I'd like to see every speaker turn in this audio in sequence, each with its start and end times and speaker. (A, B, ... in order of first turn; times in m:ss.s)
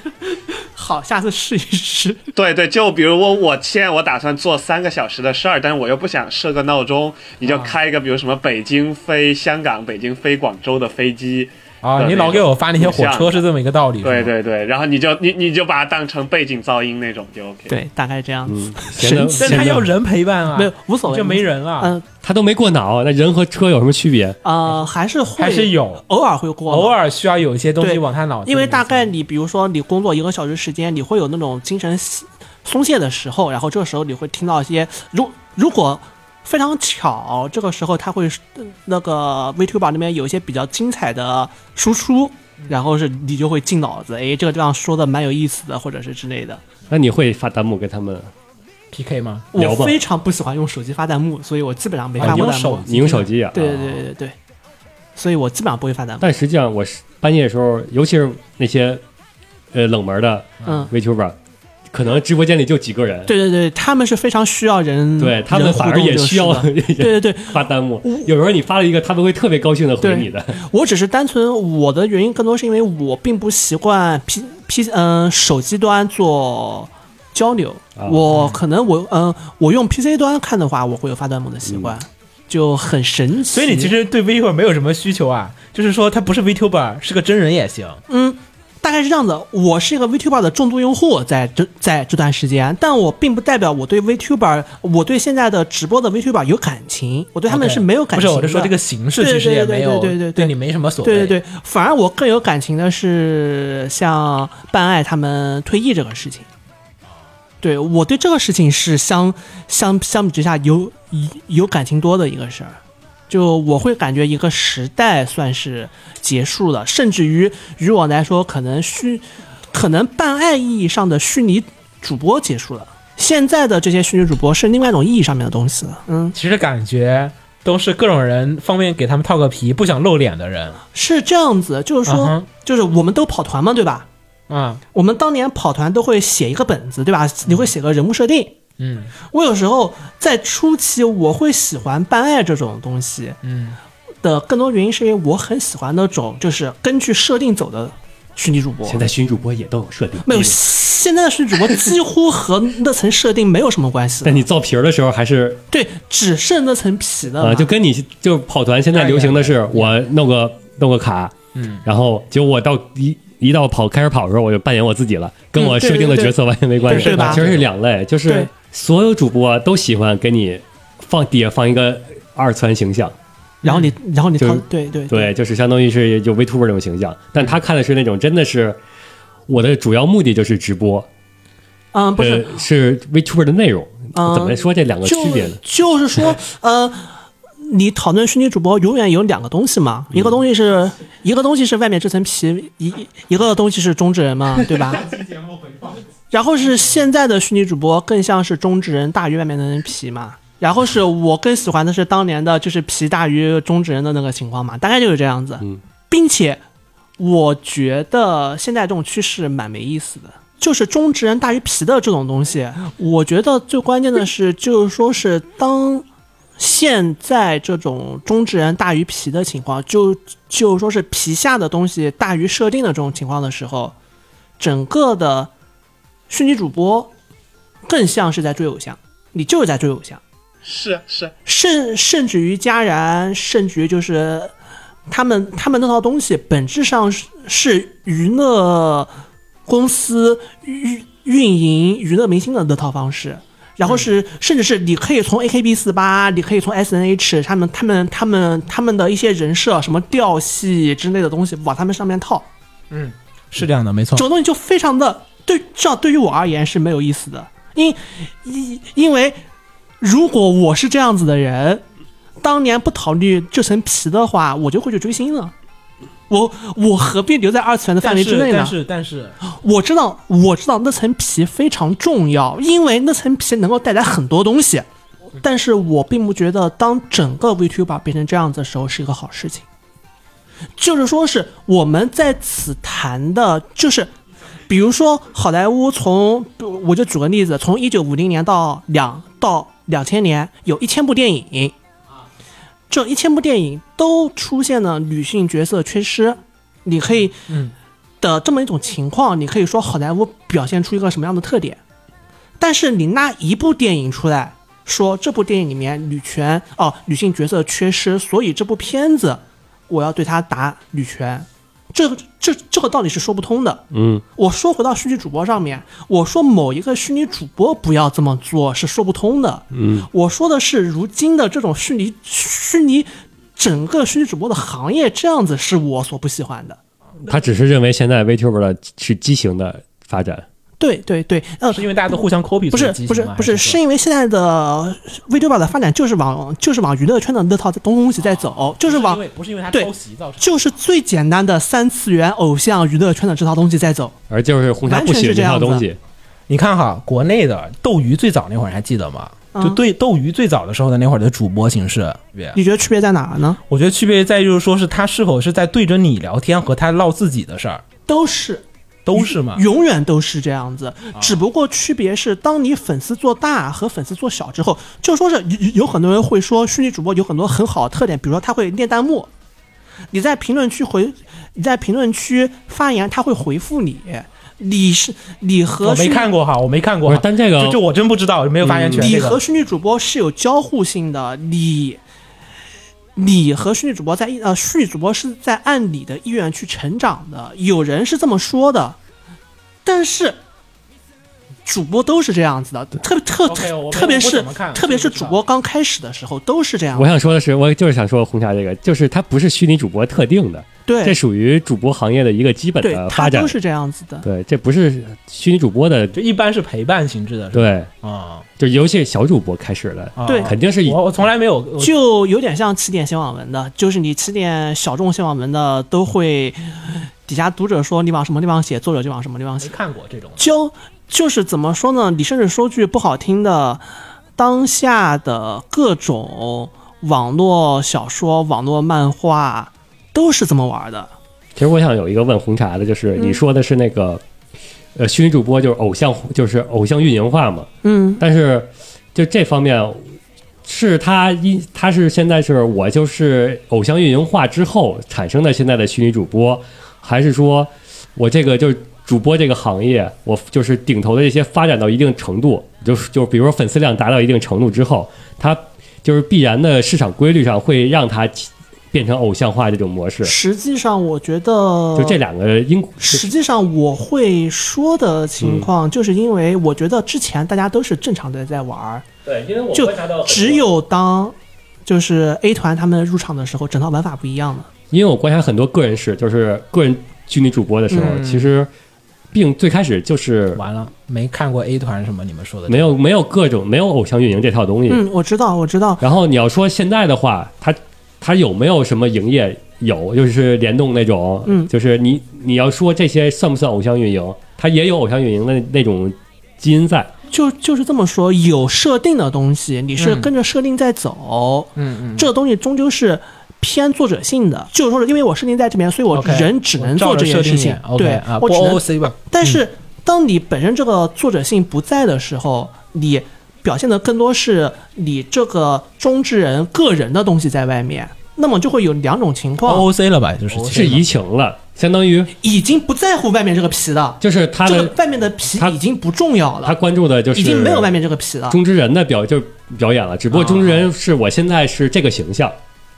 0:00.8-0:02.2 A
0:02.4-0:13.4 B
0:07.4-0:07.8 C
0:11.8-0:14.3 C
0:14.0-0:17.8 B
0:17.7-0:19.8 A
0:18.5-0:19.9 D
0:19.4-0:21.9 C
0:20.6-0:22.0 A
0:22.2-0:24.4 D
0:24.4-0:27.0 A
0:25.4-0:26.0 C
0:26.7-0:29.1 C
0:27.8-0:46.6 A
0:46.9-0:48.3 D
0:48.9-0:49.5 C
0:49.5-0:52.9 A
0:49.6-0:50.0 D
0:52.2-0:53.3 C
0:52.2-0:54.0 D
0:53.5-0:54.4 A
0:55.2-0:56.4 A
0:56.2-0:59.0 D
0:59.7-1:01.4 D
1:00.6-1:00.9 A
1:01.9-1:03.3 D
1:03.3-1:08.3 A
1:05.2-1:10.6 D
1:10.0-1:23.9 A
1:18.0-1:18.4 D
1:21.7-1:21.9 D
1:23.5-1:28.0 C
1:28.1-1:46.5 A
1:37.5-1:41.4 C
1:47.6-1:52.8 A
1:53.3-2:06.4 A
2:06.3-2:10.8 C
2:10.9-2:14.1 A
2:12.1-2:12.5 C
2:14.5-2:14.8 C
2:14.9-2:18.6 A
2:18.8-2:19.1 C
2:19.2-2:23.4 A
2:23.4-2:23.8 C
2:24.2-2:29.0 A
2:28.8-2:30.6 D
2:30.2-2:34.4 A
2:34.2-2:35.6 D
2:35.7-2:37.7 A
2:37.4-2:53.1 D
2:38.9-2:39.9 C
2:41.6-2:41.8 C
2:45.6-2:46.4 A
2:46.8-2:47.7 C
2:46.9-2:47.5 A
2:53.6-2:55.3 A
2:54.4-2:58.8 D
2:59.5-3:01.1 D
3:01.9-3:02.6 A
3:02.2-3:05.6 D
3:04.2-3:07.1 A
3:07.6-3:15.1 A
3:14.8-3:16.0 C
3:16.3-3:26.6 A
3:27.2-3:36.0 A
3:36.6-3:44.0 A
3:44.6-3:45.5 A
3:46.3-3:47.1 A
3:47.9-3:50.2 A
3:50.6-3:51.3 B
3:51.5-3:54.5 A
3:55.1-3:59.1 A
3:59.7-4:12.5 A
4:12.9-4:14.3 C
4:14.2-4:19.4 A
4:20.0-4:21.8 A
4:22.4-4:25.5 A
4:26.3-4:28.8 A
4:28.0-4:29.4 C
4:29.4-4:34.9 A
4:35.4-4:39.6 A
4:40.8-4:44.1 A
4:44.7-4:51.8 A
4:52.9-4:57.4 A
4:57.5-4:57.7 C
4:58.2-5:01.8 A
5:02.6-5:13.8 A
5:13.9-5:14.2 D
5:14.4-5:26.8 A
5:19.7-5:20.1 D
5:27.3-5:30.4 D
5:30.8-5:31.8 A
5:31.7-5:33.8 C
5:32.7-5:44.2 A
5:38.2-5:40.7 C
5:44.3-5:46.0 D
5:44.8-5:45.8 A
5:46.5-5:52.6 C
5:49.5-5:49.8 A
5:52.6-5:53.6 A
5:53.7-5:57.8 C
5:58.1-5:58.6 A
5:59.0-5:59.6 C
5:59.2-6:09.3 A
6:01.2-6:01.4 C
6:10.1-6:16.3 A
6:15.8-6:19.4 C
6:17.1-6:17.8 D
6:18.6-6:19.1 D
6:18.9-6:22.0 A
6:23.2-6:29.0 A
6:29.8-6:30.4 A
6:31.7-6:37.1 A
6:33.4-6:35.4 C
6:37.0-6:43.6 D
6:40.9-6:41.2 A
6:42.8-6:44.2 A
6:44.2-6:46.2 D
6:46.2-6:48.4 C
6:47.5-6:47.9 D
6:48.6-6:51.0 D
6:50.2-6:51.9 C
6:50.2-6:50.5 A
6:51.8-6:59.7 A
6:59.6-7:00.5 C
7:00.4-7:03.8 A
7:04.4-7:11.1 A
7:11.6-7:14.2 D
7:13.2-7:13.4 A
7:15.0-7:17.7 D
7:17.8-7:18.2 A
7:18.2-7:20.0 D
7:20.6-7:40.4 D
7:40.2-7:42.2 A
7:42.0-7:43.3 D
7:43.0-7:49.0 A
7:45.4-7:45.7 D
7:49.3-7:50.7 D
7:49.7-7:54.7 A
7:54.9-7:58.7 D
7:57.9-7:58.2 A
7:58.0-7:58.5 C
7:59.3-8:00.6 D
8:00.6-8:02.9 C
8:02.7-8:05.0 D
8:04.9-8:06.0 A
8:06.0-8:17.1 D
8:17.3-8:39.9 A
8:20.0-8:20.3 C
8:21.8-8:22.3 C
8:26.1-8:29.6 C
8:39.7-8:41.1 C
8:40.5-8:42.3 D
8:42.4-8:46.8 A
8:44.2-8:45.0 D
8:46.6-8:47.9 D
8:47.4-8:48.6 A
8:48.5-8:52.6 D
8:50.3-8:50.9 C